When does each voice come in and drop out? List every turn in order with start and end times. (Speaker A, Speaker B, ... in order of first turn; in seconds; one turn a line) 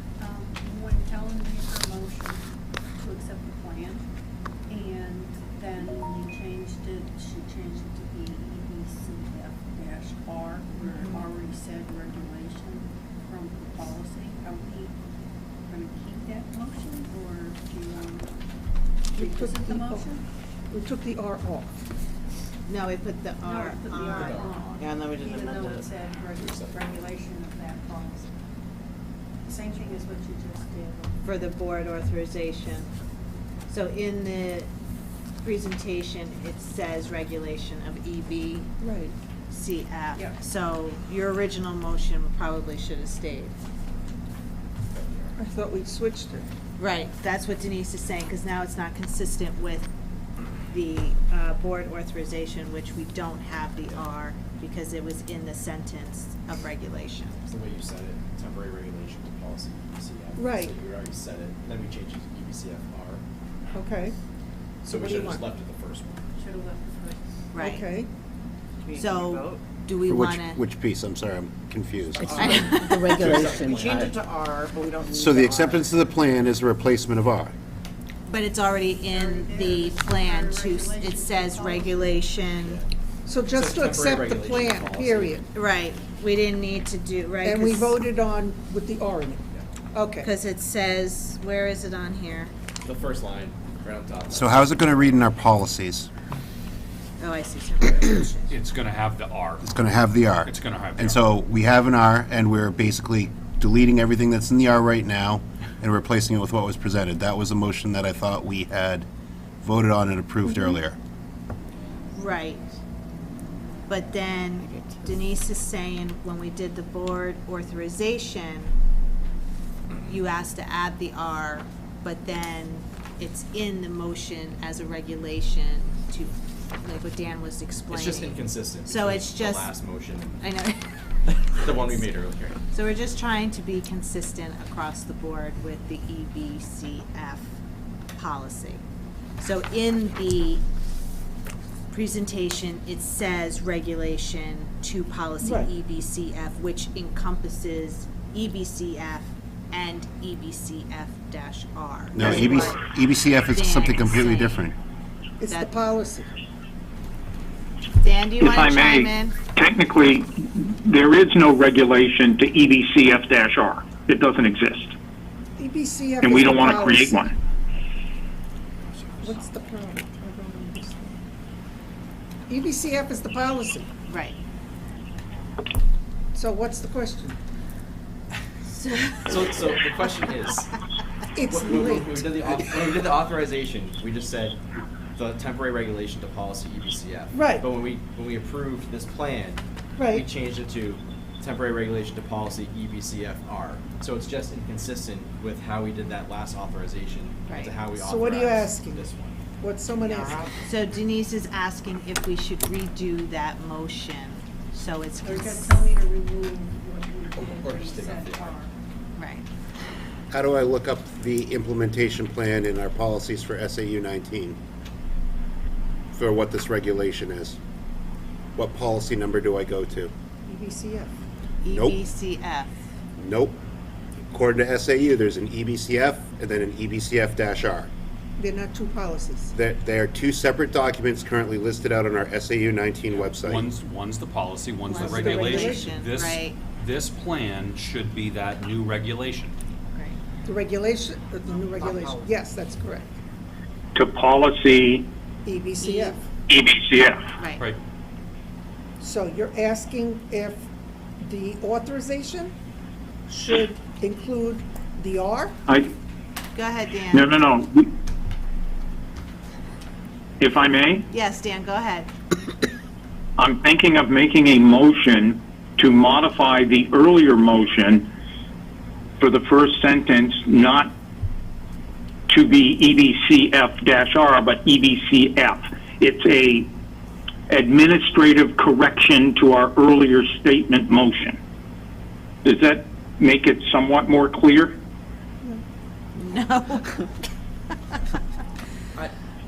Speaker A: 0.2-2.4
Speaker A: 3.0-4.0
Speaker A: 4.7-14.9
Speaker A: 15.7-18.4
Speaker B: 19.1-20.1
Speaker A: 19.1-20.2
Speaker B: 20.7-21.8
Speaker C: 22.6-24.5
Speaker A: 23.4-28.3
Speaker D: 24.0-24.9
Speaker E: 24.8-25.8
Speaker D: 26.3-27.1
Speaker A: 29.4-31.2
Speaker C: 31.2-32.9
Speaker C: 33.7-34.7
Speaker C: 35.4-38.7
Speaker B: 38.8-39.1
Speaker C: 39.5-43.5
Speaker D: 44.9-45.3
Speaker B: 45.4-46.5
Speaker C: 46.8-49.9
Speaker C: 50.7-57.4
Speaker D: 57.5-63.2
Speaker B: 60.4-60.7
Speaker B: 63.7-64.2
Speaker D: 64.8-66.2
Speaker B: 64.9-65.4
Speaker A: 66.3-67.2
Speaker C: 67.5-67.9
Speaker B: 67.6-68.1
Speaker E: 68.9-69.6
Speaker C: 68.9-70.6
Speaker F: 70.0-72.5
Speaker E: 72.2-75.8
Speaker C: 72.3-73.5
Speaker D: 73.1-74.2
Speaker F: 75.1-77.5
Speaker C: 78.2-82.8
Speaker A: 79.1-82.3
Speaker D: 82.6-82.9
Speaker B: 83.2-85.4
Speaker D: 83.5-85.4
Speaker C: 85.5-88.0
Speaker B: 87.4-90.3
Speaker C: 90.2-92.5
Speaker D: 92.8-95.2
Speaker F: 94.3-96.1
Speaker C: 97.2-98.5
Speaker G: 98.5-99.7
Speaker F: 99.6-109.1
Speaker G: 100.4-101.2
Speaker F: 109.6-111.0
Speaker C: 112.1-112.6
Speaker C: 113.9-118.7
Speaker E: 114.7-115.1
Speaker C: 120.0-129.7
Speaker D: 127.9-130.4
Speaker C: 130.4-132.0
Speaker D: 131.2-132.6
Speaker C: 132.7-137.6
Speaker C: 138.2-138.8
Speaker C: 139.4-140.6
Speaker C: 141.9-152.7
Speaker B: 145.4-145.7
Speaker F: 152.1-154.7
Speaker B: 152.2-152.7
Speaker C: 153.5-154.7
Speaker B: 155.4-156.3
Speaker C: 155.5-155.8
Speaker C: 158.0-159.4
Speaker H: 158.4-164.9
Speaker B: 165.6-167.2
Speaker H: 166.2-167.3
Speaker B: 169.2-171.2
Speaker B: 172.5-173.9
Speaker C: 174.1-174.4
Speaker B: 176.3-177.4
Speaker C: 178.6-179.7
Speaker D: 179.2-180.7
Speaker B: 181.3-182.3
Speaker D: 181.5-184.6
Speaker D: 185.1-199.4
Speaker B: 187.3-187.7
Speaker B: 190.0-190.3
Speaker C: 197.5-197.9
Speaker B: 197.9-199.0
Speaker B: 199.6-200.5
Speaker C: 199.9-205.8
Speaker A: 205.2-208.7
Speaker D: 207.4-208.5
Speaker C: 209.2-209.5
Speaker F: 210.3-214.6
Speaker F: 216.1-217.6
Speaker F: 218.6-220.1
Speaker B: 220.4-221.2
Speaker C: 221.6-222.7
Speaker F: 221.7-222.0
Speaker F: 223.2-223.6
Speaker F: 224.3-227.9
Speaker B: 228.4-229.5
Speaker F: 229.5-233.7
Speaker G: 233.1-239.5
Speaker C: 234.8-236.6
Speaker B: 235.0-235.9
Speaker C: 239.9-240.2
Speaker B: 240.4-243.1
Speaker E: 241.8-242.3
Speaker H: 243.9-245.0
Speaker B: 245.4-246.2
Speaker C: 245.8-246.2
Speaker H: 246.5-247.2
Speaker C: 247.4-247.7
Speaker B: 249.0-250.7
Speaker B: 251.2-252.5
Speaker B: 253.3-255.6
Speaker C: 256.5-257.4
Speaker H: 257.1-257.9
Speaker H: 260.4-261.0
Speaker C: 261.1-262.1
Speaker H: 263.4-268.1
Speaker H: 269.2-270.9
Speaker H: 272.3-276.7
Speaker H: 277.5-281.4
Speaker H: 282.4-284.7
Speaker C: 286.1-287.1